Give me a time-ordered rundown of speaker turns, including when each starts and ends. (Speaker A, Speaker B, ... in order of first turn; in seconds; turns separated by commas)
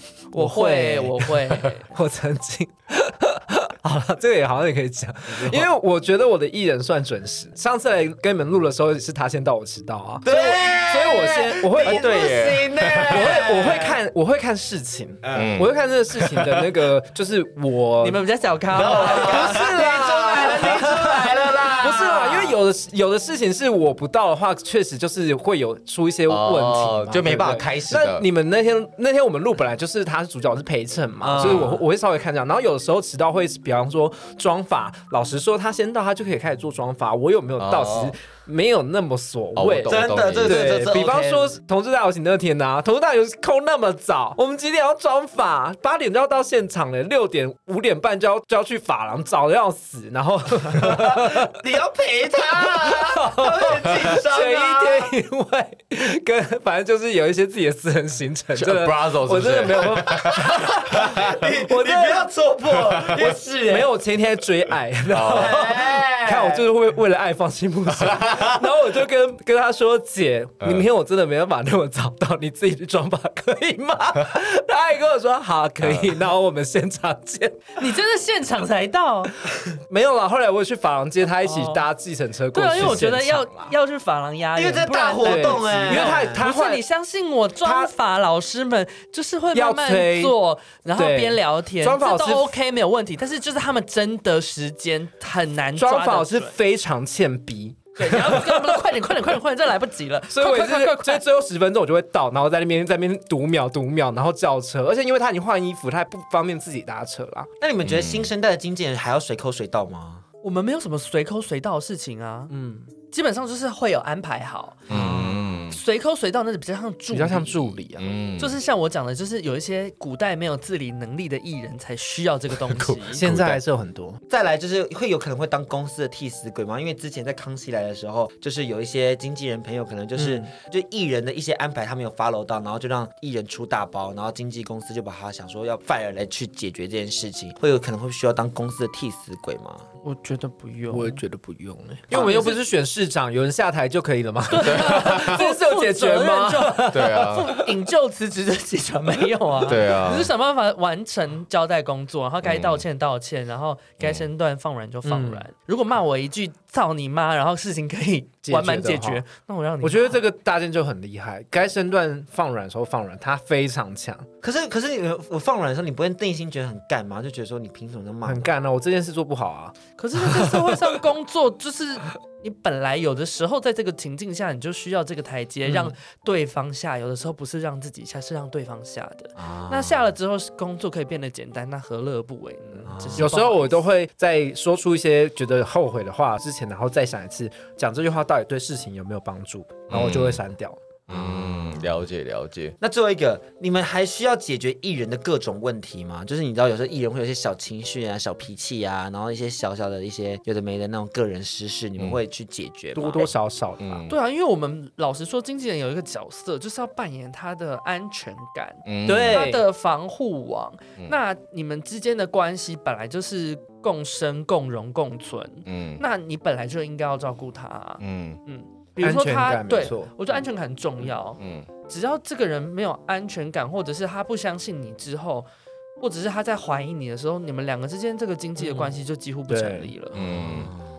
Speaker A: 0.3-1.9, Speaker B: 0.3-12.2, Speaker C: 5.3-5.7, Speaker C: 10.2-14.0, Speaker D: 11.8-13.5, Speaker B: 13.1-18.2, Speaker C: 15.2-15.6, Speaker D: 15.3-16.7, Speaker A: 18.0-20.6, Speaker D: 18.7-19.7, Speaker C: 18.8-22.6, Speaker B: 18.8-51.6, Speaker D: 26.3-28.2, Speaker C: 31.2-31.8, Speaker D: 31.4-31.7, Speaker D: 37.6-38.1, Speaker D: 39.5-40.9, Speaker C: 39.9-41.5, Speaker C: 51.3-55.1, Speaker B: 52.6-62.2, Speaker D: 58.5-61.4, Speaker C: 60.3-63.9, Speaker B: 63.1-77.8, Speaker D: 65.1-65.6, Speaker C: 65.3-66.6, Speaker D: 75.8-76.1, Speaker A: 77.8-79.3, Speaker B: 79.4-83.7, Speaker A: 81.4-81.8, Speaker A: 82.5-96.5, Speaker C: 84.5-86.5, Speaker B: 85.2-86.8, Speaker B: 87.6-87.9, Speaker B: 89.5-90.3, Speaker B: 91.0-92.5, Speaker B: 95.7-98.8, Speaker A: 98.0-101.2, Speaker B: 100.3-107.5, Speaker C: 107.6-110.2, Speaker D: 107.8-108.3, Speaker A: 110.4-112.5, Speaker B: 112.5-112.9, Speaker A: 113.1-114.9, Speaker D: 114.9-115.8, Speaker C: 114.9-115.6, Speaker A: 115.7-117.8, Speaker B: 117.1-118.1, Speaker D: 118.0-118.6, Speaker A: 118.4-123.2, Speaker D: 122.6-123.6, Speaker B: 123.1-124.2, Speaker C: 124.3-139.8, Speaker B: 130.2-130.5, Speaker A: 140.0-141.2, Speaker B: 140.9-147.7, Speaker A: 142.1-142.6, Speaker C: 142.1-142.4, Speaker A: 144.5-160.2, Speaker D: 144.6-145.5, Speaker D: 146.9-147.6, Speaker D: 149.6-150.3, Speaker D: 152.4-152.8, Speaker B: 155.0-155.4, Speaker B: 158.4-159.2, Speaker B: 159.8-164.3, Speaker C: 164.4-168.5, Speaker B: 168.2-170.8, Speaker A: 170.0-183.8, Speaker B: 175.6-175.9, Speaker C: 179.4-180.0, Speaker C: 182.9-183.3, Speaker B: 183.2-190.8, Speaker D: 189.9-190.4, Speaker D: 191.1-192.8, Speaker C: 191.1-191.8, Speaker C: 192.8-203.3, Speaker B: 202.9-204.1, Speaker D: 203.8-204.1, Speaker A: 204.1-225.5, Speaker D: 208.8-209.5, Speaker B: 209.0-209.6, Speaker D: 215.7-216.0, Speaker D: 218.0-218.4, Speaker B: 219.0-220.1, Speaker D: 221.4-221.7, Speaker A: 226.0-230.2, Speaker B: 229.5-229.9, Speaker D: 230.1-230.7, Speaker C: 230.2-230.8